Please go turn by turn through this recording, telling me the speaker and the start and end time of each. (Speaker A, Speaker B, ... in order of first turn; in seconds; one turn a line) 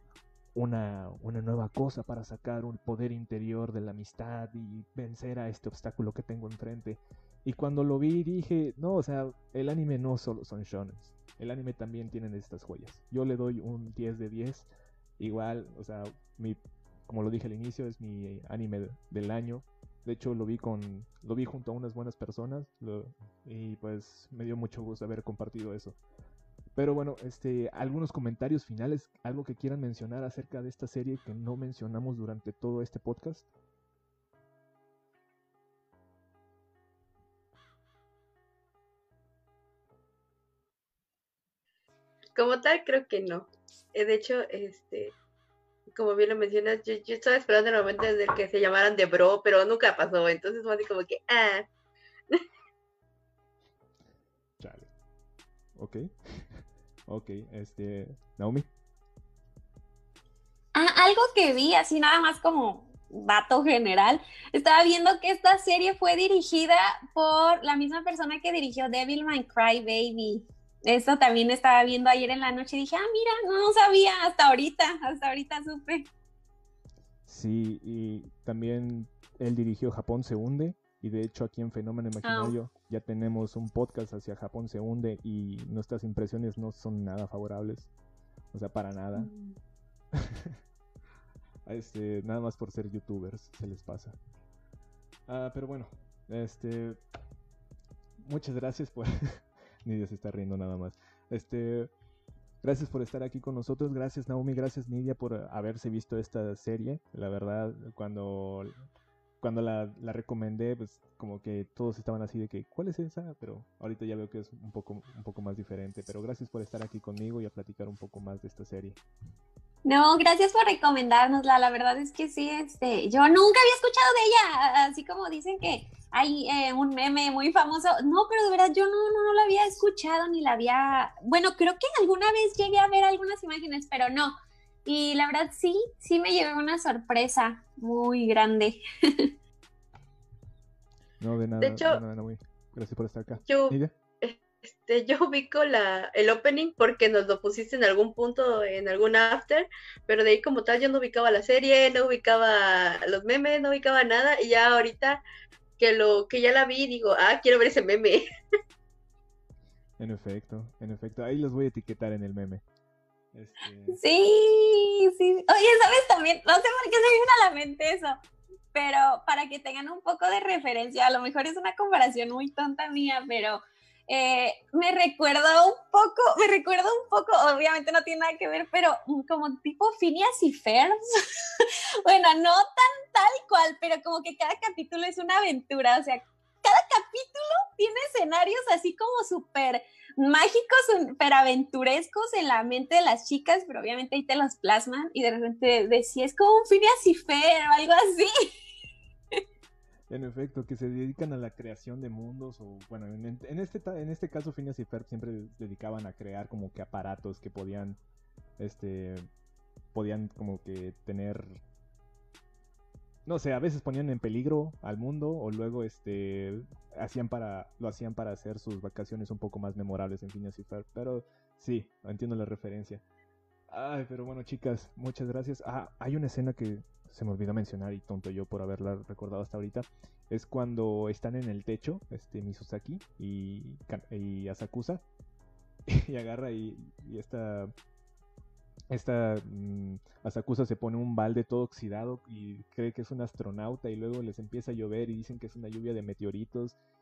Speaker A: 0.6-14.7
Speaker A: 15.2-26.0
Speaker A: 26.8-33.5
Speaker B: 42.4-45.2
Speaker B: 45.9-51.7
Speaker A: 54.6-54.9
Speaker A: 55.8-58.7
Speaker C: 60.8-76.1
Speaker A: 77.3-87.9
Speaker C: 82.2-82.5
Speaker A: 88.5-89.3
Speaker C: 89.2-89.6
Speaker A: 90.1-90.6
Speaker A: 91.7-94.2
Speaker A: 95.3-97.0
Speaker A: 98.2-101.9
Speaker A: 102.6-108.7
Speaker A: 109.4-119.0
Speaker C: 119.8-134.3
Speaker C: 134.8-139.3
Speaker A: 141.2-143.9
Speaker B: 141.6-142.0
Speaker B: 143.4-155.2
Speaker B: 155.8-158.3
Speaker A: 160.0-162.6
Speaker A: 163.3-164.0
Speaker C: 163.9-168.2
Speaker C: 168.7-181.0
Speaker C: 181.6-198.5
Speaker A: 200.1-208.0
Speaker A: 208.6-209.3
Speaker A: 209.9-211.6
Speaker A: 213.3-223.0
Speaker A: 223.7-235.0
Speaker A: 235.9-237.7
Speaker A: 238.9-246.8